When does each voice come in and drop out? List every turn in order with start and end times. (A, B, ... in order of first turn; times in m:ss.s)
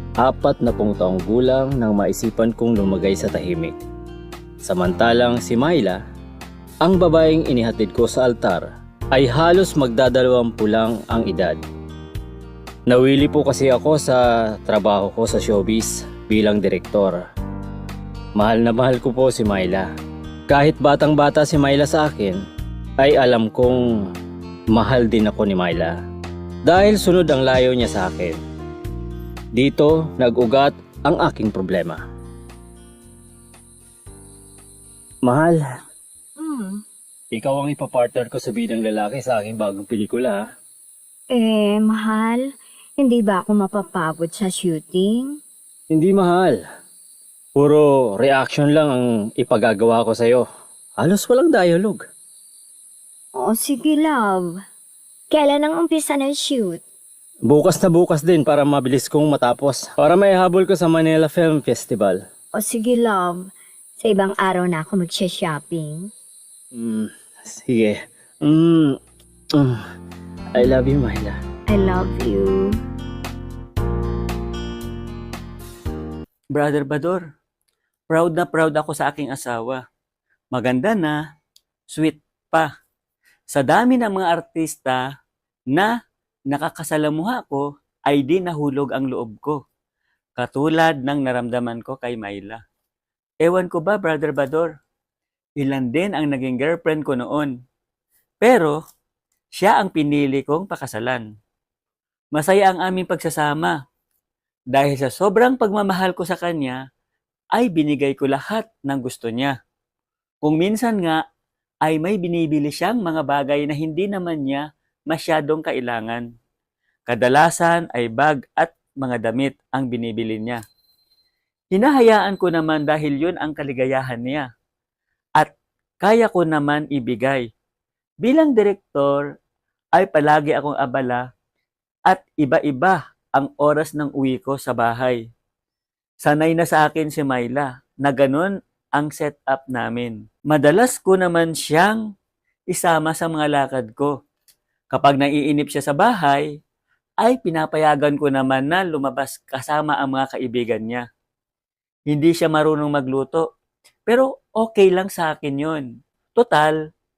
0:00.2-0:03.8 A
0:04.6-0:06.0 A
0:06.8-0:11.6 A
0:12.9-0:17.2 A
0:18.4-0:19.8 A
0:20.5-0:22.4 A
0:23.0-0:24.0 A
0:24.7-0:26.0 A
0:26.6-0:28.4 A
0:29.5-0:32.0 A
0:35.2-0:35.6 A
0:36.4-0:36.8 B
0:37.3-0:40.4 A
0:41.3-0:45.4 B
0:45.9-0:46.6 A
0:47.6-0:50.4 A
0:51.0-0:52.0 A
0:53.3-0:54.6 B
0:55.3-0:56.8 B
0:57.5-1:02.2 A
1:02.5-1:06.1 B
1:06.7-1:09.0 A
1:09.5-1:09.8 A
1:10.5-1:11.4 A
1:11.7-1:12.8 B
1:16.5-1:17.2 C
1:18.1-1:19.8 C
1:20.5-1:21.2 C
1:21.9-1:22.7 C
1:23.5-1:25.0 C
1:26.5-1:29.6 C
1:30.4-1:32.6 C
1:33.4-1:34.7 C
1:35.6-1:37.5 C
1:38.4-1:38.8 C
1:39.5-1:41.3 C
1:42.3-1:43.8 C
1:44.7-1:46.8 C
1:47.5-1:49.5 C
1:50.4-1:51.2 C
1:51.8-1:56.2 C
1:57.1-2:00.6 C
2:01.7-2:04.5 C
2:05.4-2:07.4 C
2:08.2-2:09.2 C
2:09.9-2:11.3 C
2:12.1-2:15.2 C
2:16.2-2:22.0 C
2:22.7-2:24.1 C
2:24.9-2:26.5 C
2:27.2-2:31.0 C
2:32.1-2:33.4 C
2:34.1-2:36.8 C